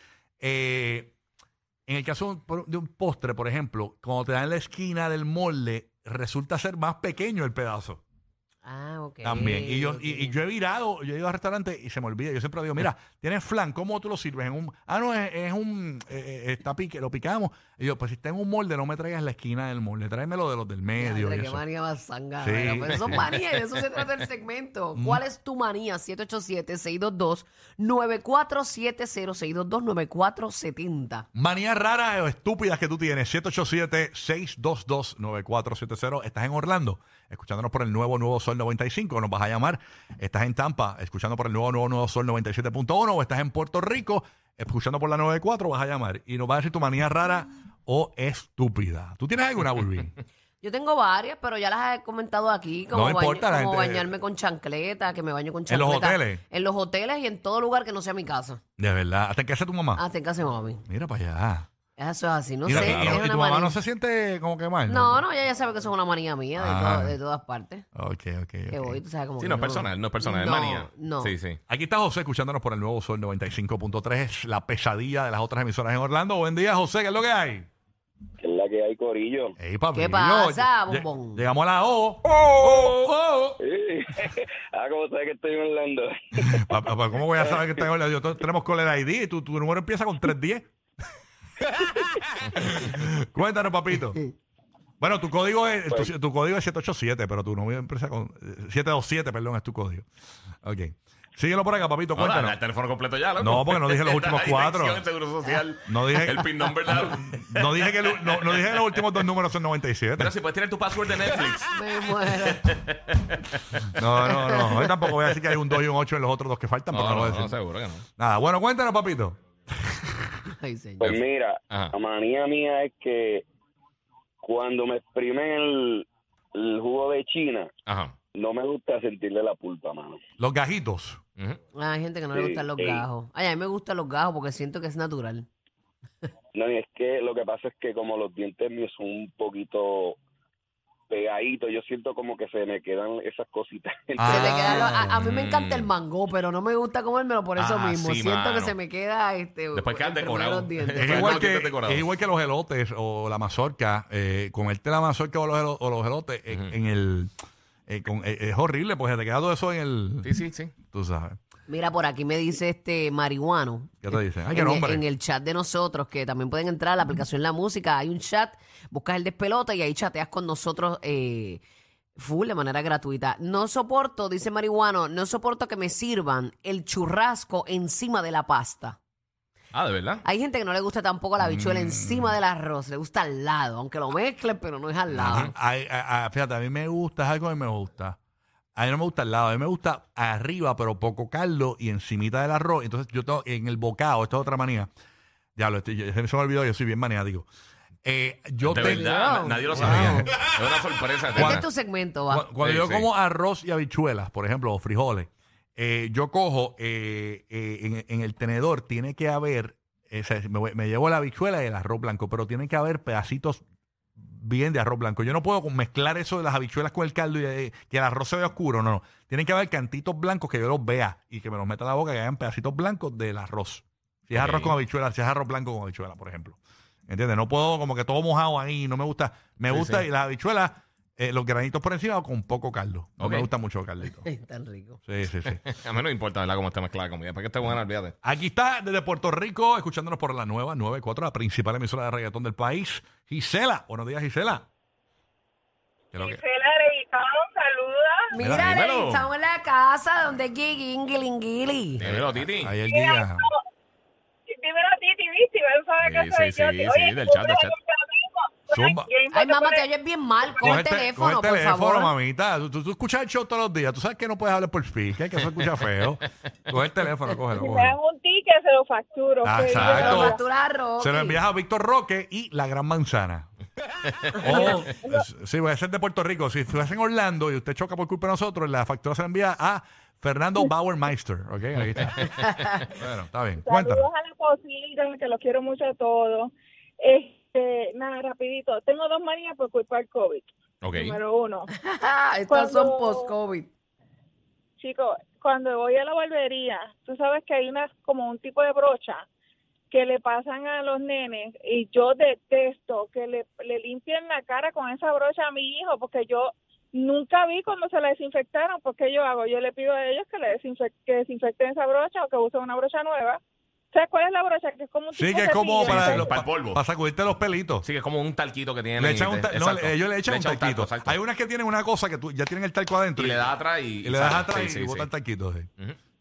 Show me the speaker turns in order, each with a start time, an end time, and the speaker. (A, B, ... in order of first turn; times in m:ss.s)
0:00.4-0:01.1 A
0:01.9-0:08.0 A
0:08.6-0:10.3 B
0:09.2-0:21.6 A
0:21.0-0:31.3 B
0:22.4-0:23.2 A
0:25.0-0:25.2 A
0:31.3-0:50.1 A
0:50.6-0:58.6 B
0:52.9-0:54.1 A
0:55.7-0:56.4 A
0:58.8-1:00.0 A
1:00.0-1:00.8 B
1:00.9-1:01.7 A
1:02.0-1:03.8 B
1:02.6-1:05.2 A
1:02.7-1:03.2 C
1:04.9-1:07.8 B
1:06.6-1:07.2 A
1:08.0-1:09.0 A
1:08.7-1:11.3 B
1:09.4-1:11.6 C
1:11.7-1:17.7 A
1:18.4-1:19.6 D
1:19.6-1:23.6 A
1:19.9-1:21.4 B
1:23.6-1:26.6 D
1:26.5-1:30.7 A
1:27.4-1:27.8 D
1:32.4-1:34.2 A
1:35.0-1:40.1 A
1:40.6-1:42.6 A
1:42.2-1:49.3 C
1:43.4-1:45.1 A
1:45.8-1:50.4 A
1:50.2-1:51.7 C
1:51.7-1:52.8 B
1:52.3-1:53.9 C
1:54.0-1:57.6 A
1:56.9-1:58.0 C
1:58.2-1:59.4 A
2:00.5-2:01.1 B
2:01.0-2:03.4 D
2:01.0-2:01.9 C
2:04.4-2:07.7 D
2:07.9-2:08.1 C
2:08.3-2:10.2 D
2:10.4-2:11.2 A
2:11.8-2:15.5 B
2:12.3-2:13.0 D
2:16.6-2:20.2 D
2:21.1-2:24.8 D
2:24.2-2:25.2 A
2:24.2-2:31.5 B
2:25.2-2:25.9 C
2:27.6-2:28.8 C
2:29.7-2:32.1 C
2:31.0-2:37.3 A
2:37.9-2:40.3 A
2:40.2-2:40.8 C
2:40.9-2:41.4 A
2:41.7-2:51.6 B
2:44.0-2:45.0 A
2:52.2-2:59.0 B
2:59.7-3:00.2 C
3:00.2-3:05.5 B
3:01.4-3:02.4 A
3:05.1-3:05.5 C
3:05.2-3:08.2 A
3:08.8-3:14.9 A
3:15.6-3:17.5 A
3:18.0-3:19.1 A
3:18.6-3:21.6 C
3:18.8-3:20.3 B
3:19.7-3:20.4 A
3:21.3-3:21.7 A
3:21.4-3:22.4 B
3:22.3-3:33.6 A
3:22.6-3:23.1 C
3:34.2-3:54.3 A
3:44.4-3:44.7 C
3:49.7-3:50.0 C
3:53.2-3:53.5 C
3:54.2-3:55.0 B
3:55.1-3:55.6 A
3:55.5-3:58.2 C
3:58.2-4:04.7 A
4:06.1-4:06.4 A
4:06.2-4:08.3 E
4:08.3-4:12.0 B
4:08.4-4:08.7 A
4:08.5-4:09.3 C
4:12.0-4:12.7 C
4:12.0-4:13.4 A
4:12.9-4:13.6 E
4:14.5-4:19.8 E
4:16.0-4:17.8 C
4:18.7-4:19.1 A
4:19.3-4:22.1 B
4:20.6-4:27.9 A
4:27.6-4:30.4 E
4:29.4-4:30.4 A
4:29.7-4:31.4 B
4:31.0-4:33.5 A
4:34.1-4:34.4 C
4:34.4-4:42.4 A
4:34.5-4:35.2 E
4:42.3-4:42.9 B
4:42.9-4:44.1 A
4:43.6-4:51.7 E
4:50.8-4:51.2 C
4:51.8-4:53.7 B
4:52.5-4:53.3 E
4:54.8-4:59.2 E
4:59.9-5:13.4 E
5:13.9-5:16.3 E
5:15.1-5:17.9 A
5:15.8-5:16.8 C
5:17.8-5:21.2 C
5:19.0-5:23.5 A
5:23.2-5:25.1 C
5:24.0-5:25.7 A